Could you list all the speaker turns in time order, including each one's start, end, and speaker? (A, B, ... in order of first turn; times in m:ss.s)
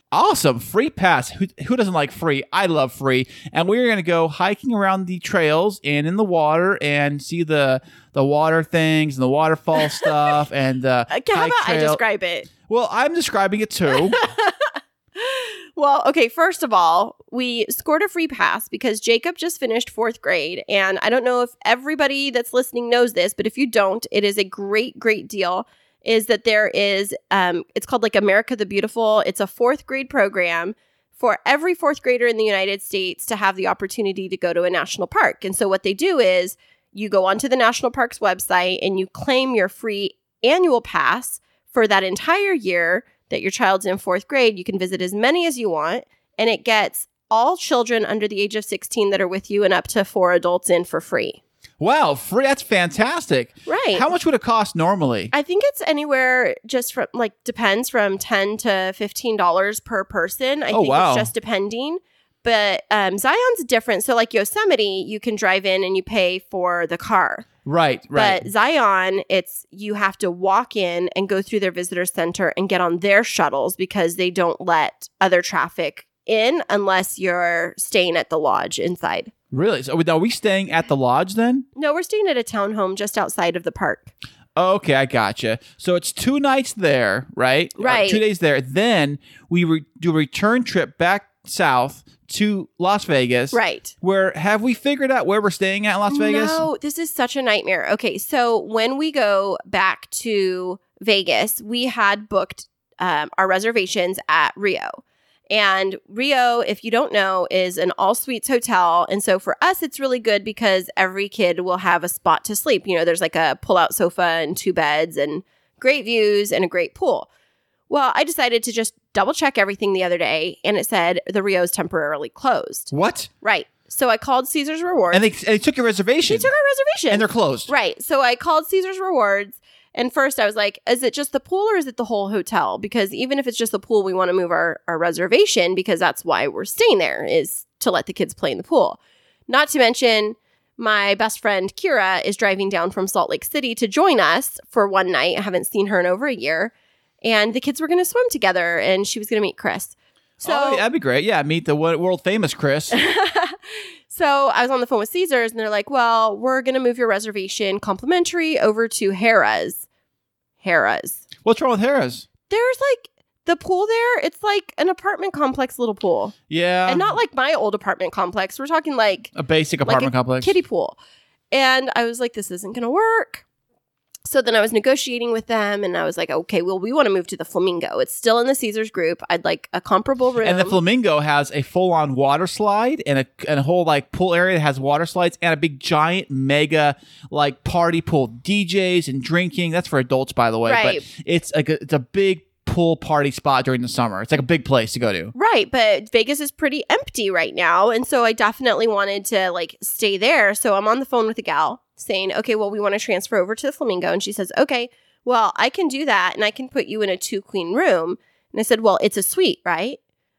0:00.1-0:12.0 A
0:11.1-0:12.5 B
0:12.6-0:14.2 A
0:14.1-0:51.4 B
0:51.8-0:55.3 A
0:53.6-0:54.0 B
0:55.3-1:07.5 B
1:00.7-1:01.3 A
1:07.6-1:08.5 A
1:08.1-1:19.3 B
1:19.5-1:21.6 A
1:21.8-1:24.1 B
1:24.6-1:36.6 A
1:27.8-1:28.2 B
1:33.5-1:33.9 B
1:36.1-1:57.3 B
1:57.9-2:05.2 B
2:02.9-2:03.3 A
2:05.1-2:06.5 A
2:06.3-2:30.8 B
2:07.1-2:07.7 A
2:30.4-2:33.0 A
2:32.9-2:39.8 B
2:40.6-2:41.2 B
2:41.4-2:42.2 A
2:42.5-2:49.3 B
2:46.5-2:47.2 A
2:49.3-2:50.6 A
2:49.8-2:51.0 B
2:51.5-2:53.4 B
2:54.2-3:00.7 B
3:00.4-3:15.3 A
3:10.6-3:11.0 B
3:15.3-3:30.0 B